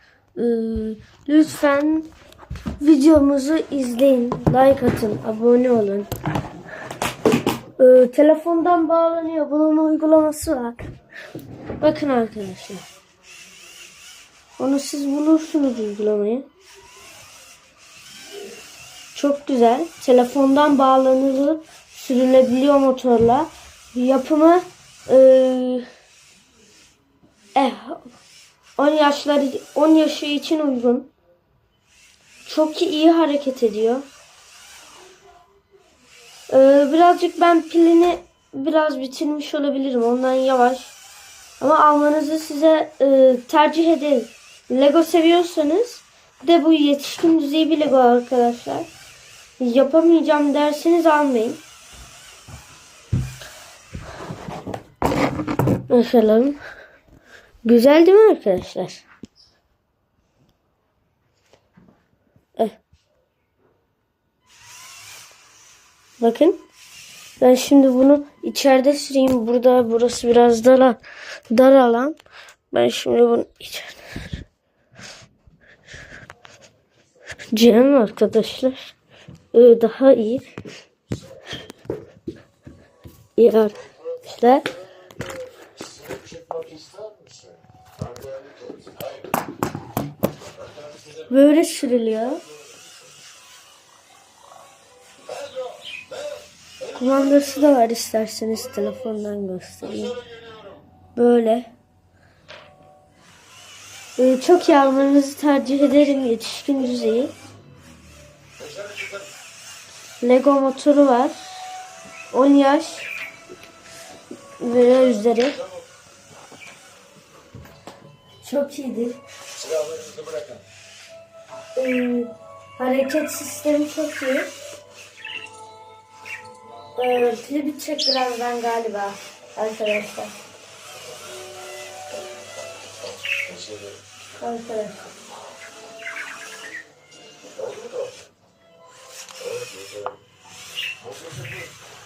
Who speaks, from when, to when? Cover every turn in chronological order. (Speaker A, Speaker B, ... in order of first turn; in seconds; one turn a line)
Speaker A: 0.3-2.1
Speaker A: 2.8-6.1
Speaker A: 7.8-10.8
Speaker A: 11.8-12.8
Speaker A: 14.6-16.5
Speaker A: 19.1-25.9
Speaker A: 27.5-28.1
Speaker A: 28.8-31.1
Speaker A: 32.5-34.1
Speaker A: 36.5-40.9
Speaker A: 41.6-48.9
Speaker A: 49.6-51.6
Speaker A: 55.9-56.6
Speaker A: 57.6-59.0
Speaker A: 66.2-66.6
Speaker A: 67.4-72.2
Speaker A: 72.7-74.2
Speaker A: 77.5-78.9
Speaker A: 79.5-80.5
Speaker A: 83.4-84.7
Speaker B: 85.6-89.2
Speaker A: 91.3-92.4
Speaker A: 96.9-100.2
Speaker B: 100.3-100.8
Speaker A: 101.1-101.7
Speaker A: 104.2-107.3
Speaker B: 108.6-109.3
Speaker A: 110.2-111.6
Speaker A: 112.3-113.1
Speaker A: 114.6-115.6
Speaker A: 118.4-119.2
Speaker B: 119.6-120.6
Speaker A: 121.7-124.5
Speaker A: 127.0-130.3
Speaker B: 133.4-134.0
Speaker A: 134.4-135.0
Speaker B: 137.5-138.2
Speaker B: 139.4-140.2
Speaker B: 141.0-141.7